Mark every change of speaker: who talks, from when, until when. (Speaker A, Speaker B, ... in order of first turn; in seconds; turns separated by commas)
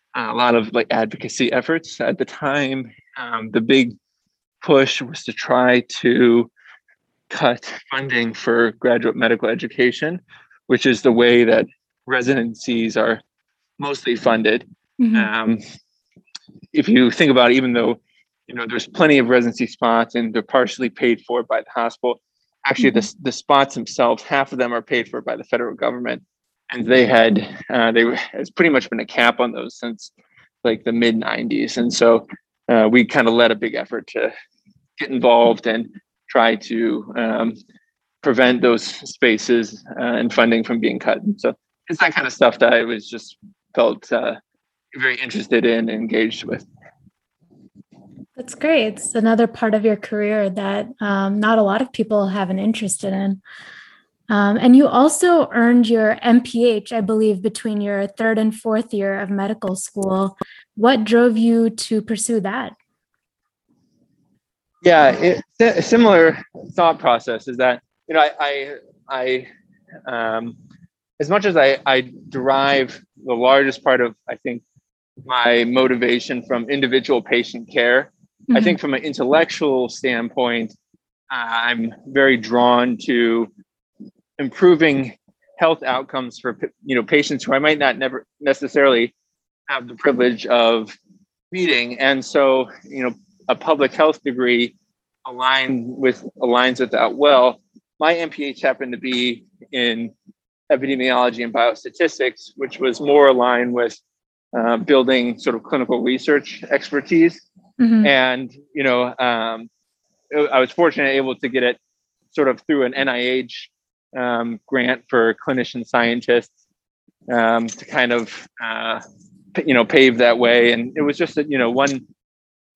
Speaker A: 0.2-4.0, Speaker A: 4.6-6.5, Speaker A: 7.3-13.2, Speaker A: 13.8-15.6, Speaker B: 15.0-15.3, Speaker A: 16.7-30.1, Speaker B: 22.8-23.1, Speaker A: 30.6-34.3, Speaker A: 35.0-37.6, Speaker A: 38.2-44.4, Speaker A: 44.9-46.7, Speaker B: 48.4-53.4, Speaker B: 54.3-62.8, Speaker A: 64.8-69.5, Speaker A: 70.1-70.6, Speaker A: 71.2-74.6, Speaker A: 75.2-80.8, Speaker B: 78.5-78.8, Speaker A: 81.3-83.5, Speaker A: 84.4-89.1, Speaker A: 89.7-91.0, Speaker A: 91.5-94.8, Speaker A: 95.3-100.1, Speaker A: 100.7-104.0, Speaker A: 104.5-107.4, Speaker B: 107.8-108.1, Speaker A: 108.0-109.7, Speaker A: 110.3-111.8, Speaker A: 112.3-116.5, Speaker A: 117.3-119.0, Speaker A: 119.5-122.0